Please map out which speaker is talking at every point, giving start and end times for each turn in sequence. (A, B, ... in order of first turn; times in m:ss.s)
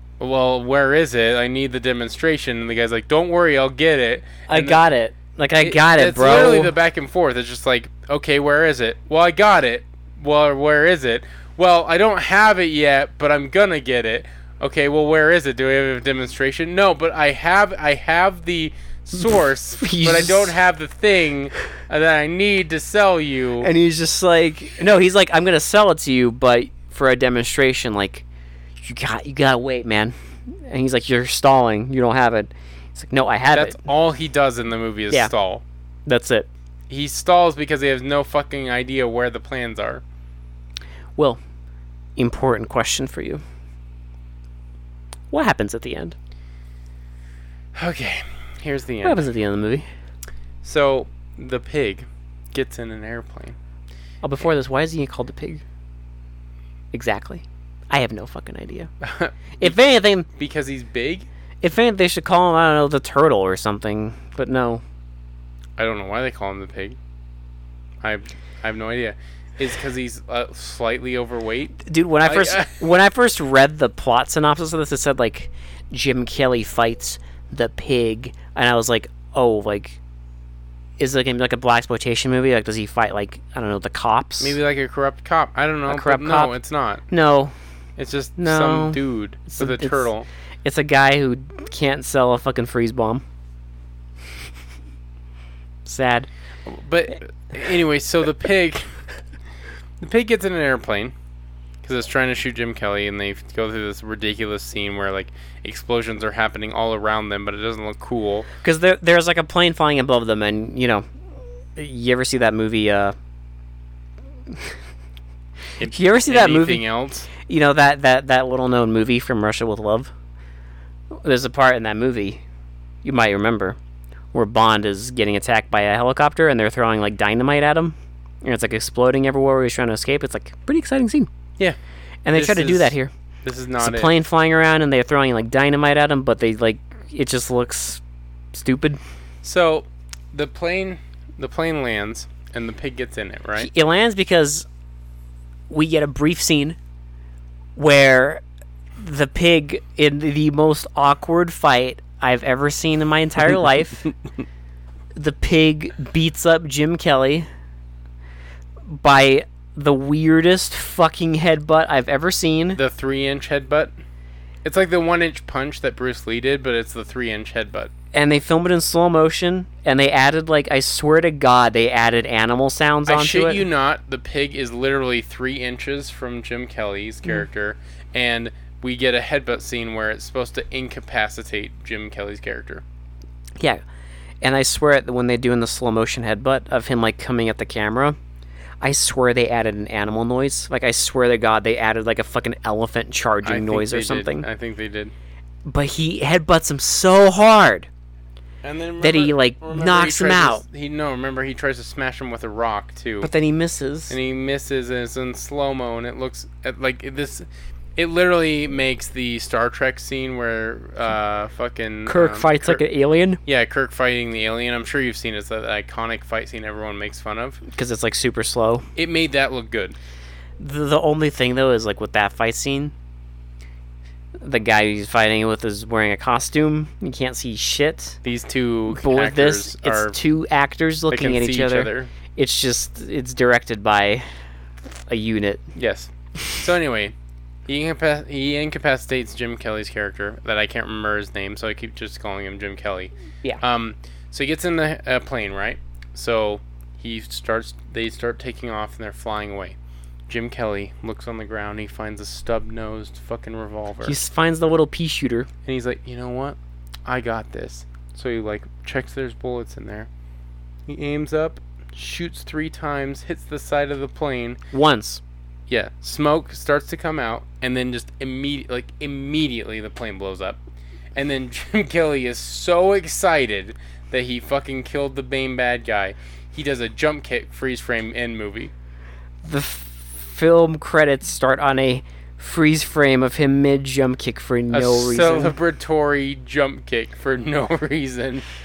0:00.2-0:04.8 A
0:04.5-0:06.7 B
0:05.6-0:23.7 A
0:19.8-0:20.6 B
0:23.6-0:28.2 B
0:28.8-0:33.8 B
0:33.5-0:35.6 A
0:36.1-0:36.5 B
0:36.9-0:40.0 A
0:42.2-0:43.4 B
0:45.3-0:46.2 B
0:47.7-0:49.3 A
0:49.0-0:49.9 B
0:50.6-0:53.6 A
0:54.2-0:55.6 B
0:56.9-0:58.9 B
0:59.0-0:59.8 A
0:59.6-1:00.3 B
1:00.4-1:01.3 A
1:01.6-1:04.8 B
1:05.8-1:07.0 A
1:08.0-1:12.8 A
1:11.8-1:20.0 B
1:21.0-1:24.6 B
1:24.4-1:27.0 A
1:25.9-1:26.5 B
1:27.1-1:27.5 B
1:28.0-1:30.3 A
1:28.4-1:30.1 B
1:30.6-1:33.2 B
1:35.9-1:36.3 B
1:36.6-1:38.9 A
1:40.0-1:41.1 A
1:41.8-1:48.5 A
1:48.6-1:51.0 B
1:51.8-1:53.1 B
1:55.8-1:57.3 A
1:55.9-1:56.8 B
1:57.4-2:00.1 B
2:01.2-2:02.4 B
2:03.0-2:03.8 B
2:04.3-2:11.3 B
2:12.2-2:13.1 B
2:12.3-2:14.1 A
2:13.8-2:18.0 B
2:18.5-2:19.0 B
2:19.4-2:23.7 A
2:23.6-2:24.6 B
2:25.7-2:26.8 B
2:27.8-2:28.4 B
2:29.0-2:34.1 B
2:35.2-2:37.4 B
2:38.9-2:42.8 B
2:42.8-2:43.9 A
2:44.6-2:47.9 A
2:48.1-2:53.6 B
2:53.1-3:02.8 A
3:04.4-3:08.2 B
3:08.8-3:14.4 B
3:13.4-3:15.1 A
3:15.6-3:17.9 B
3:18.6-3:23.3 A
3:19.0-3:20.6 B
3:23.2-3:24.2 B
3:24.1-3:32.8 A
3:32.1-3:33.4 B
3:33.4-3:37.6 A
3:37.7-3:38.9 B
3:39.0-3:40.0 A
3:40.6-3:42.9 B
3:44.4-3:48.2 B
3:48.2-3:50.2 A
3:48.9-3:54.2 B
3:51.1-3:52.1 A
3:55.1-3:55.6 B
3:55.8-3:57.1 A
3:57.7-4:09.8 A
4:10.3-4:14.2 A
4:14.0-4:15.5 B
4:15.6-4:20.1 A
4:20.9-4:24.6 A
4:24.7-4:25.2 B
4:25.7-4:30.6 A
4:31.1-4:38.7 A
4:39.4-4:45.6 B
4:44.7-4:48.4 A